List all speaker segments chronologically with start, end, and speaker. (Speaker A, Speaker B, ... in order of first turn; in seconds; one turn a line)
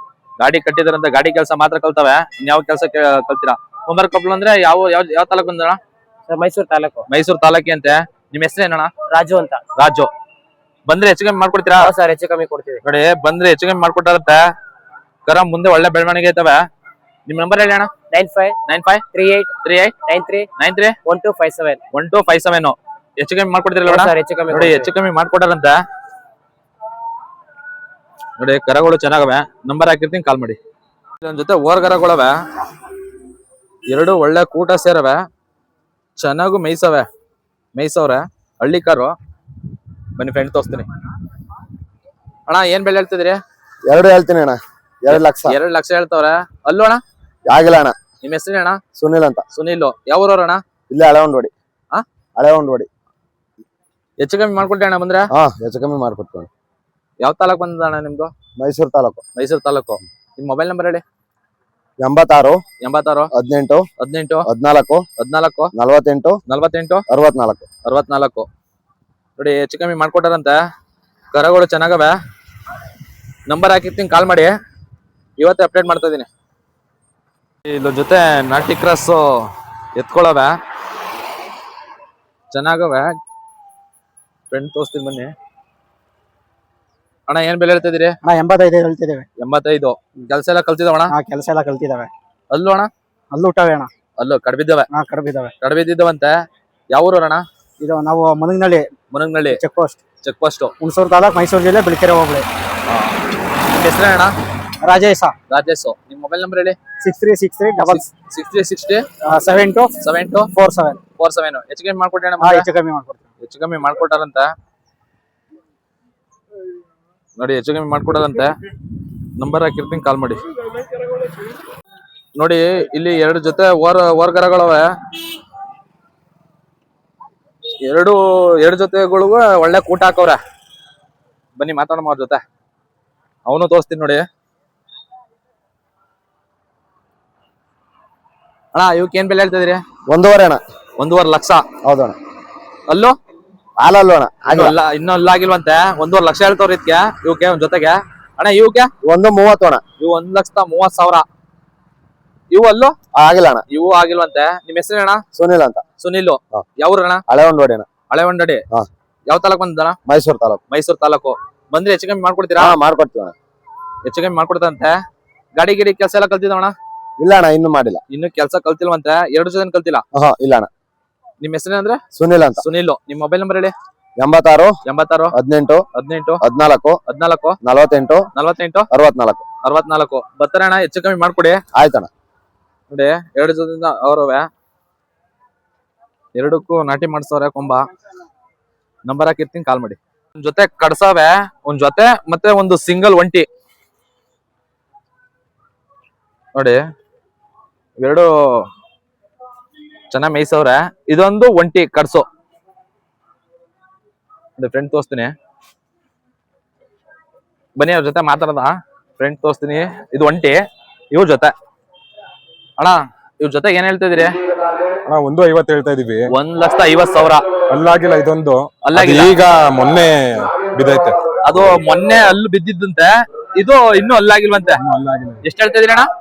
Speaker A: 0.4-5.8
Speaker B: 6.3-7.1
Speaker A: 7.1-8.9
Speaker B: 9.1-9.6
Speaker A: 9.8-10.1
Speaker A: 10.9-11.9
Speaker B: 11.8-12.8
Speaker A: 12.8-14.4
Speaker A: 15.3-16.6
Speaker A: 17.3-17.9
Speaker B: 18.1-18.6
Speaker A: 18.7-19.1
Speaker B: 19.1-19.5
Speaker A: 19.6-19.9
Speaker B: 20.1-20.5
Speaker A: 20.6-21.0
Speaker B: 21.1-21.8
Speaker A: 21.9-25.8
Speaker B: 23.9-24.9
Speaker A: 28.4-30.6
Speaker A: 31.2-32.4
Speaker A: 33.9-35.2
Speaker A: 36.2-37.1
Speaker A: 37.8-39.1
Speaker A: 40.2-40.9
Speaker A: 42.5-43.4
Speaker C: 43.9-45.6
Speaker A: 45.1-47.0
Speaker C: 47.5-48.0
Speaker A: 48.2-48.8
Speaker C: 49.0-49.5
Speaker A: 49.5-50.6
Speaker C: 50.9-51.5
Speaker C: 52.4-52.9
Speaker A: 54.2-55.3
Speaker C: 55.3-56.5
Speaker A: 57.2-58.3
Speaker C: 58.6-59.2
Speaker A: 59.4-61.0
Speaker C: 62.0-62.6
Speaker A: 62.8-63.3
Speaker C: 63.3-63.9
Speaker A: 64.0-64.5
Speaker C: 64.5-65.0
Speaker A: 65.2-65.7
Speaker C: 65.7-66.4
Speaker A: 66.5-67.0
Speaker C: 67.1-67.7
Speaker A: 67.8-68.5
Speaker A: 69.4-70.6
Speaker A: 71.3-72.2
Speaker A: 73.5-74.5
Speaker A: 75.4-76.3
Speaker A: 77.7-80.6
Speaker A: 82.5-83.2
Speaker A: 84.5-85.3
Speaker A: 87.3-88.2
Speaker D: 88.2-89.3
Speaker A: 89.4-91.1
Speaker D: 91.1-92.1
Speaker A: 92.5-92.9
Speaker D: 93.3-93.9
Speaker A: 94.2-94.9
Speaker D: 94.9-95.5
Speaker A: 95.6-96.3
Speaker A: 96.9-97.5
Speaker D: 97.8-98.9
Speaker A: 99.1-99.6
Speaker D: 99.5-100.0
Speaker A: 100.2-100.7
Speaker D: 100.8-102.5
Speaker A: 102.9-103.2
Speaker A: 103.7-104.3
Speaker D: 104.8-105.3
Speaker A: 105.5-106.8
Speaker D: 107.0-108.1
Speaker A: 107.9-109.1
Speaker D: 109.2-110.0
Speaker A: 110.0-110.5
Speaker D: 110.5-111.0
Speaker A: 111.2-112.7
Speaker D: 112.4-113.2
Speaker A: 113.4-114.5
Speaker A: 117.4-118.6
Speaker A: 119.4-120.4
Speaker A: 122.4-124.9
Speaker A: 127.8-130.4
Speaker A: 131.6-132.4
Speaker A: 133.5-134.3
Speaker A: 138.7-139.8
Speaker C: 140.1-140.6
Speaker A: 141.0-141.6
Speaker C: 141.8-142.2
Speaker A: 142.9-143.2
Speaker C: 143.8-144.8
Speaker A: 144.5-148.9
Speaker C: 149.0-149.8
Speaker A: 150.0-151.2
Speaker A: 152.5-152.9
Speaker C: 153.1-153.6
Speaker A: 153.7-155.2
Speaker C: 155.3-155.8
Speaker A: 156.0-157.2
Speaker C: 157.3-157.9
Speaker A: 158.1-158.6
Speaker A: 159.3-160.0
Speaker C: 160.1-160.6
Speaker A: 160.7-162.8
Speaker C: 162.6-163.3
Speaker A: 164.1-165.0
Speaker A: 165.6-166.8
Speaker C: 167.2-168.0
Speaker A: 168.1-170.0
Speaker C: 170.1-170.7
Speaker A: 171.4-172.0
Speaker C: 172.2-172.6
Speaker A: 172.6-173.7
Speaker C: 174.2-174.7
Speaker A: 174.9-175.3
Speaker C: 175.3-175.8
Speaker A: 175.9-176.4
Speaker C: 176.4-177.0
Speaker A: 177.1-177.6
Speaker C: 177.6-178.3
Speaker A: 178.3-178.9
Speaker C: 178.9-179.4
Speaker A: 179.6-181.6
Speaker C: 181.7-182.1
Speaker A: 182.9-184.5
Speaker A: 186.3-187.9
Speaker A: 189.1-193.5
Speaker A: 196.6-196.8
Speaker A: 198.0-198.7
Speaker A: 200.1-202.3
Speaker A: 204.6-205.3
Speaker A: 207.8-210.6
Speaker A: 211.1-211.5
Speaker A: 212.8-214.4
Speaker E: 215.1-216.3
Speaker A: 216.3-217.5
Speaker E: 217.7-221.8
Speaker A: 218.8-219.4
Speaker A: 221.4-224.8
Speaker E: 224.8-225.4
Speaker A: 225.4-226.1